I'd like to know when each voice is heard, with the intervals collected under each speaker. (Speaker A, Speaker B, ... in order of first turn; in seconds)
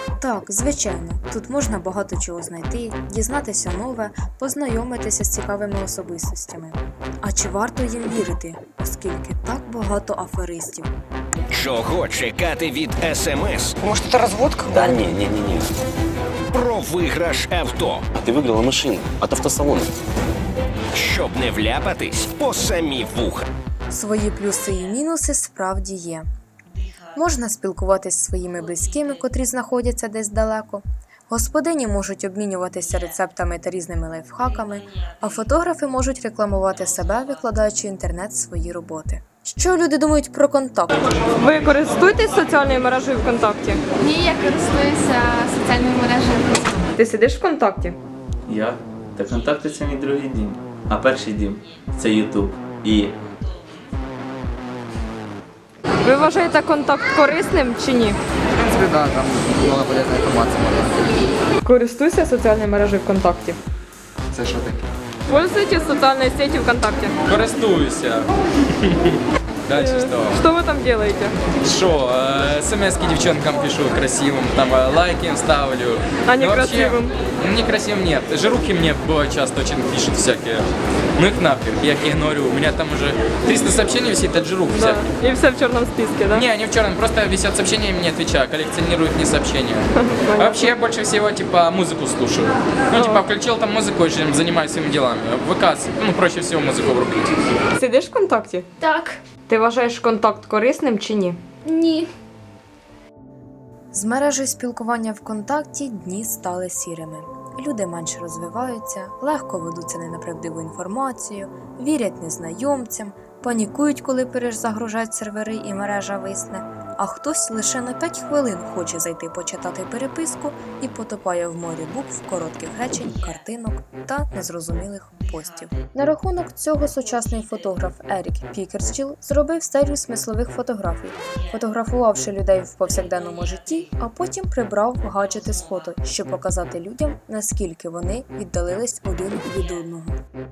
Speaker A: 0.2-10.9, 23.9-26.3, 27.1-41.1, 103.9-140.2
Speaker B: 11.5-15.2, 16.5-18.2, 20.9-23.4
Speaker C: 14.7-15.3, 18.2-19.9
Speaker D: 41.3-43.8, 46.9-48.0, 56.0-58.2, 61.6-63.6, 65.3-67.2, 69.7-71.3, 76.2-77.1, 84.7-86.4, 89.9-90.7, 92.9-93.2, 97.8-102.1
Speaker E: 44.0-46.8
Speaker F: 48.5-53.1
Speaker G: 58.6-61.1, 64.3-64.8
Speaker H: 67.3-70.4, 71.6-85.2, 86.3-97.3